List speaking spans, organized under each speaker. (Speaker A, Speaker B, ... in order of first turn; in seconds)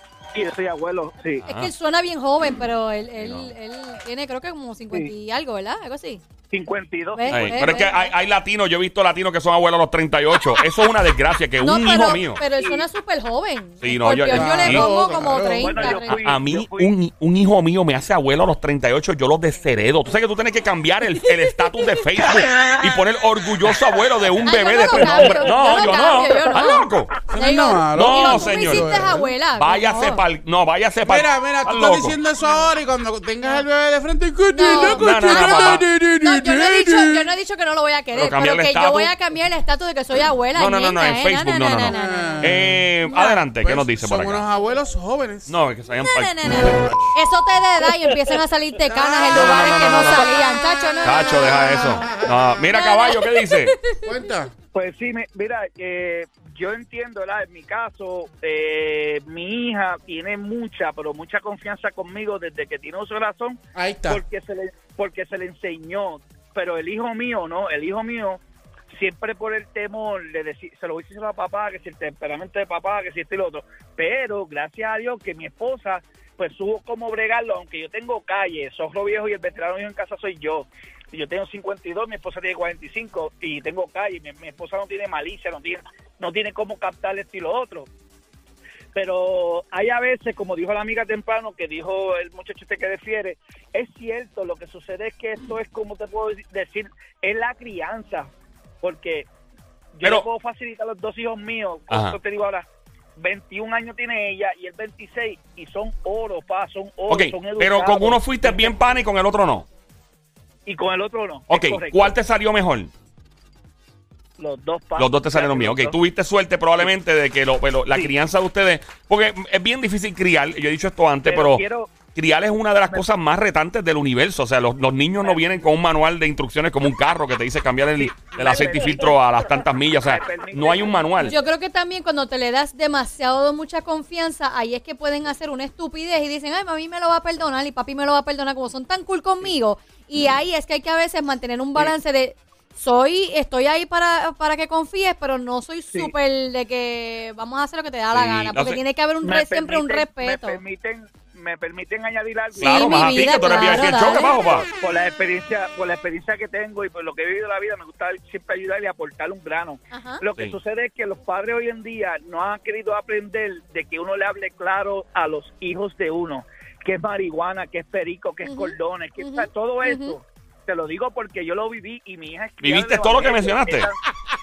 Speaker A: 0.3-1.4, 6.5-7.8, 15.6-16.9, 25.0-25.8, 54.7-87.9, 88.9-98.3, 98.8-99.3, 100.0-108.7, 110.7-112.1, 114.4-116.0, 121.2-121.9, 128.0-131.1, 149.2-153.7, 154.5-174.0
Speaker B: 1.4-1.7, 3.2-3.5, 7.3-12.4, 13.8-14.9, 16.1-27.1, 27.9-28.9, 29.6-32.1, 34.7-35.8, 38.1-39.1, 40.5-44.5, 45.5-47.1, 49.3-50.3, 51.0-53.7, 101.9-102.2, 107.1-109.7, 111.5-112.9, 115.0-121.6, 122.1-131.3, 148.1-148.8, 152.5-154.7, 172.6-173.9
Speaker C: 1.4-6.2, 7.1-8.1, 11.6-16.2, 21.2-21.8, 24.4-30.2, 32.4-32.7, 34.5-42.5, 43.0-43.4, 45.9-54.2, 131.2-150.6, 152.6-154.4, 159.9-160.2, 168.4-170.1
Speaker D: 14.3-15.8, 27.3-29.3, 31.0-37.3, 41.9-42.9, 43.6-45.5, 48.9-49.6, 51.9-52.7, 54.0-54.5, 63.7-64.2